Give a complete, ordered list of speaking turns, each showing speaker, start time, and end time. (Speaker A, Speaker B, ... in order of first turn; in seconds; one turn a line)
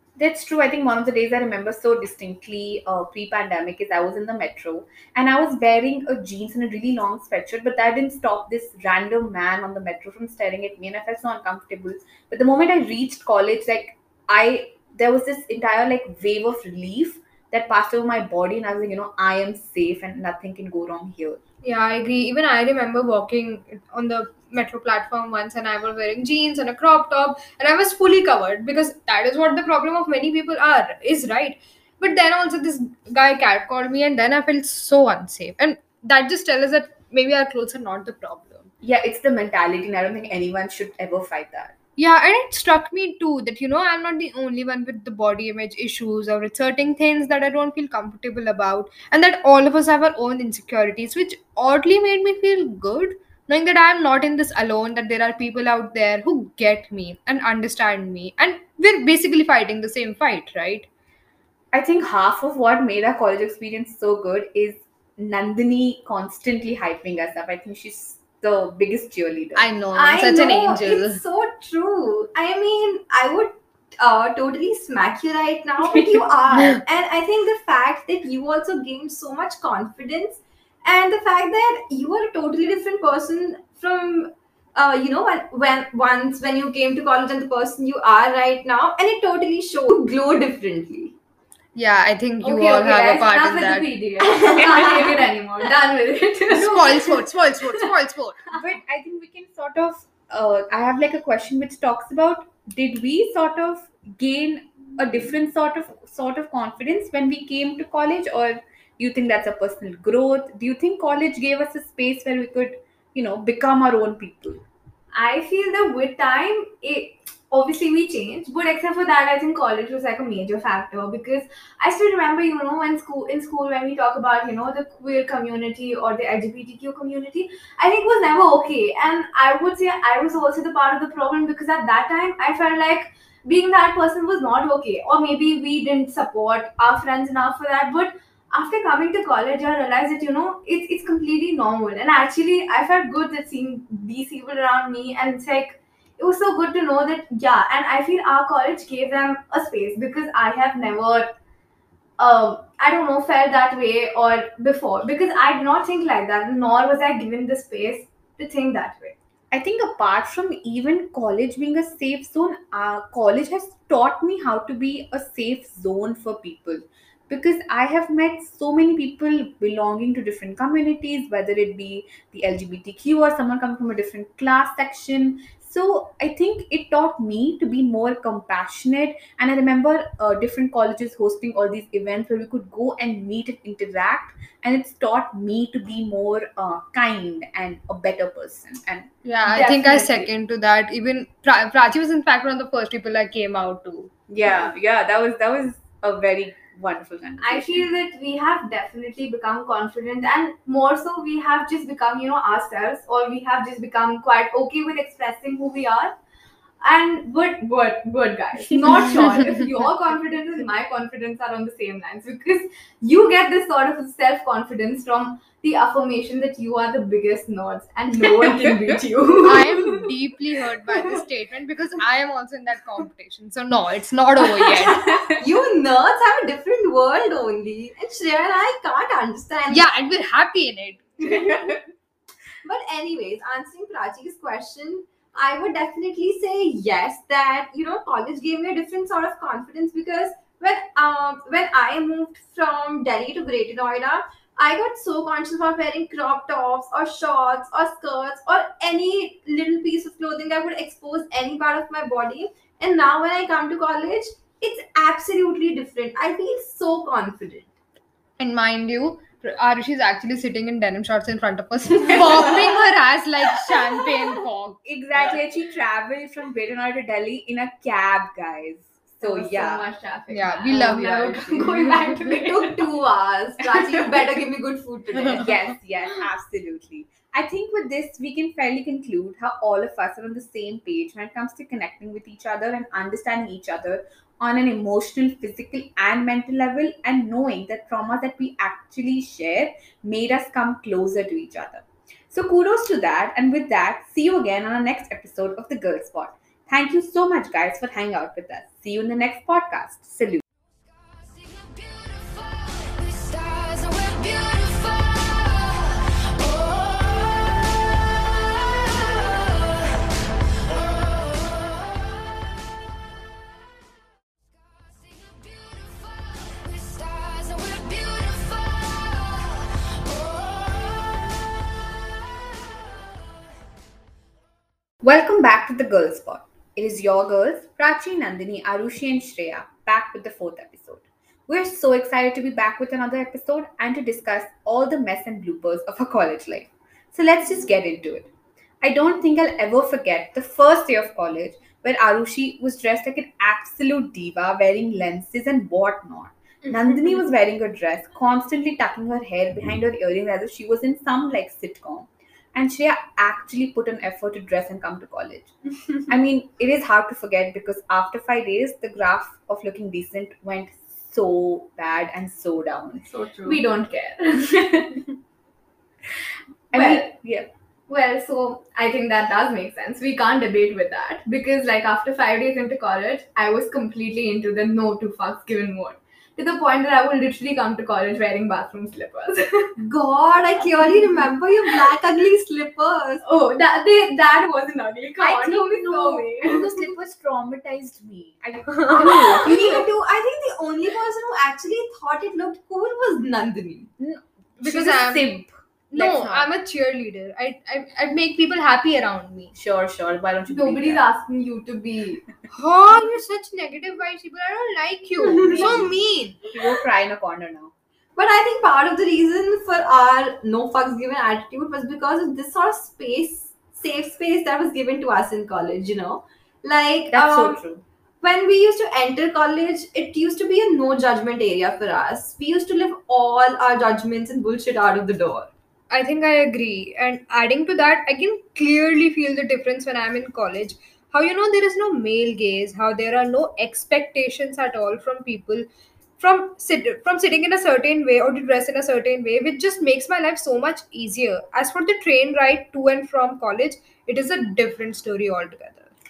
Speaker A: 0.2-21.4
Speaker B: 21.6-38.7
Speaker A: 38.8-41.7
Speaker B: 42.0-60.9
Speaker A: 61.7-69.7
Speaker B: 69.5-71.2
Speaker C: 69.9-91.1
Speaker B: 91.8-93.9
Speaker D: 92.4-97.9
Speaker C: 94.3-94.8
Speaker B: 96.5-98.4
Speaker A: 98.5-114.6
Speaker D: 115.1-151.3
Speaker D: 152.2-159.1
Speaker A: 159.5-189.1
Speaker B: 189.2-194.1
Speaker D: 189.5-190.3
Speaker A: 194.3-197.9
Speaker D: 197.4-206.1
Speaker D: 206.8-219.9
Speaker B: 209.1-209.4
Speaker B: 219.4-225.4
Speaker C: 224.5-229.9
Speaker B: 229.7-231.2
Speaker C: 231.3-231.8
Speaker C: 232.6-257.7
Speaker B: 258.4-264.8
Speaker A: 264.8-269.9
Speaker D: 269.2-272.9
Speaker B: 270.3-271.9
Speaker A: 270.7-271.6
Speaker C: 272.3-275.4
Speaker B: 275.2-275.4
Speaker A: 275.3-300.4
Speaker A: 325.0-338.3
Speaker A: 338.8-355.5
Speaker B: 346.7-347.2
Speaker A: 356.1-363.1
Speaker D: 363.2-365.1
Speaker A: 366.7-367.5
Speaker D: 366.7-367.1
Speaker D: 367.9-379.8
Speaker C: 379.8-383.2
Speaker D: 383.2-386.9
Speaker A: 385.2-389.9
Speaker B: 388.7-389.2
Speaker C: 389.5-393.9
Speaker A: 394.0-396.5
Speaker B: 394.6-395.3
Speaker B: 395.9-399.5
Speaker A: 399.5-401.0
Speaker D: 400.5-402.2
Speaker B: 402.5-406.0
Speaker C: 405.4-406.4
Speaker A: 405.4-406.0
Speaker A: 406.5-407.7
Speaker C: 408.2-417.6
Speaker A: 417.1-417.8
Speaker C: 418.2-425.5
Speaker B: 425.9-435.7
Speaker B: 436.2-445.9